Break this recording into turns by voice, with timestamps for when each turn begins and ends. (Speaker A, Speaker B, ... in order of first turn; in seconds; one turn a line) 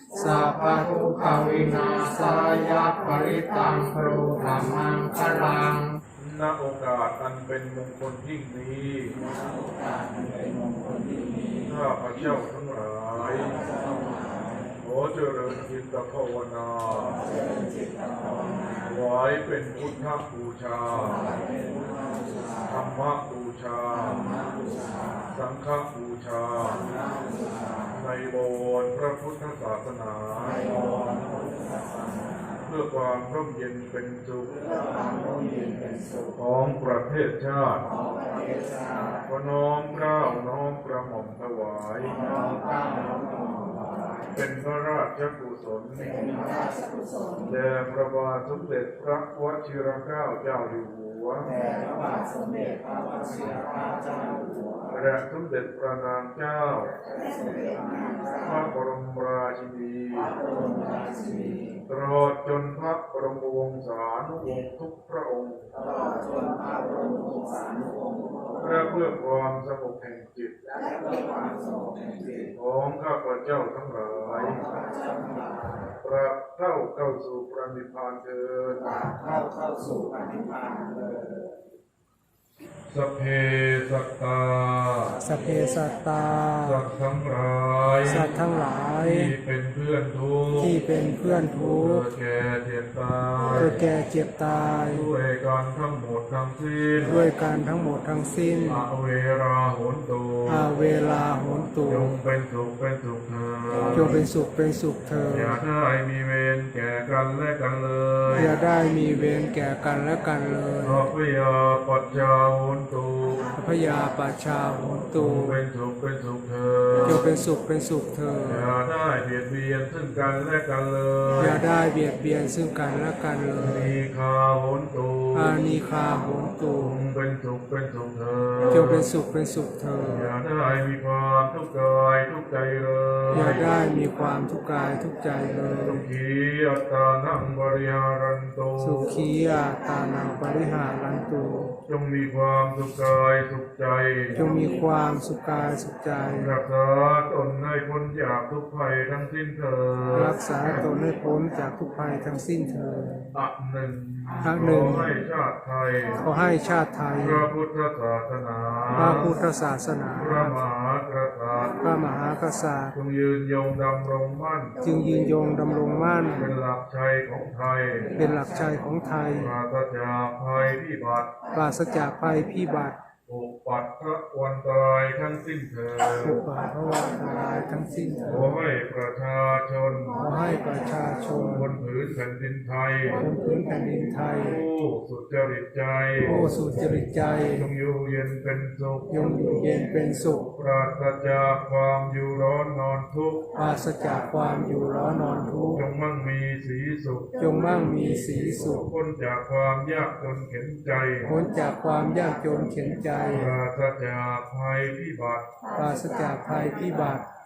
Speaker A: 0.1-2.9
Speaker B: 0.7-5.9
Speaker C: 6.2-9.2
Speaker C: 11.6-13.6
Speaker C: 14.8-17.2
Speaker C: 18.8-21.3
Speaker C: 22.7-24.2
Speaker C: 25.3-26.8
Speaker C: 27.9-30.6
Speaker C: 32.6-34.6
Speaker C: 36.4-37.9
Speaker C: 39.2-42.2
Speaker C: 44.3-46.3
Speaker C: 47.4-51.6
Speaker C: 54.9-57.0
Speaker C: 58.4-60.4
Speaker C: 61.9-65.7
Speaker C: 68.6-70.5
Speaker C: 72.5-74.6
Speaker C: 76.0-78.8
Speaker C: 82.9-85.2
Speaker A: 85.2-86.8
Speaker C: 86.6-88.3
Speaker A: 88.0-89.3
Speaker C: 89.0-90.8
Speaker A: 90.6-92.0
Speaker C: 91.7-93.8
Speaker A: 93.5-95.1
Speaker C: 94.8-97.2
Speaker A: 97.0-98.8
Speaker C: 98.6-100.7
Speaker A: 100.5-102.1
Speaker C: 101.8-104.2
Speaker A: 103.9-105.5
Speaker C: 105.3-108.5
Speaker A: 108.3-111.0
Speaker C: 110.8-113.5
Speaker A: 113.5-115.6
Speaker C: 115.1-117.2
Speaker A: 117.0-118.7
Speaker C: 118.5-121.6
Speaker A: 121.4-123.9
Speaker C: 123.6-125.9
Speaker A: 125.3-126.9
Speaker C: 126.7-129.1
Speaker A: 128.7-130.3
Speaker C: 130.0-133.8
Speaker A: 133.3-136.0
Speaker C: 135.8-139.1
Speaker A: 138.8-141.7
Speaker C: 141.9-144.4
Speaker A: 144.3-146.5
Speaker C: 146.3-150.8
Speaker A: 150.1-153.3
Speaker C: 153.3-156.2
Speaker A: 154.4-155.1
Speaker A: 156.2-157.5
Speaker C: 157.1-159.3
Speaker A: 158.9-160.5
Speaker C: 160.1-161.8
Speaker A: 161.8-162.9
Speaker C: 162.9-164.7
Speaker A: 164.8-166.5
Speaker C: 166.3-168.1
Speaker A: 168.1-169.5
Speaker C: 169.3-171.4
Speaker A: 171.5-173.0
Speaker C: 173.2-176.4
Speaker A: 176.2-178.5
Speaker C: 178.2-180.3
Speaker A: 180.2-181.7
Speaker C: 181.5-183.2
Speaker A: 183.1-184.6
Speaker C: 184.4-186.4
Speaker A: 186.2-187.6
Speaker C: 187.5-189.6
Speaker A: 189.1-190.5
Speaker C: 190.5-193.4
Speaker A: 193.5-195.8
Speaker C: 195.8-197.4
Speaker A: 197.4-198.8
Speaker C: 198.3-201.3
Speaker A: 201.2-203.5
Speaker C: 203.3-205.5
Speaker A: 205.7-207.2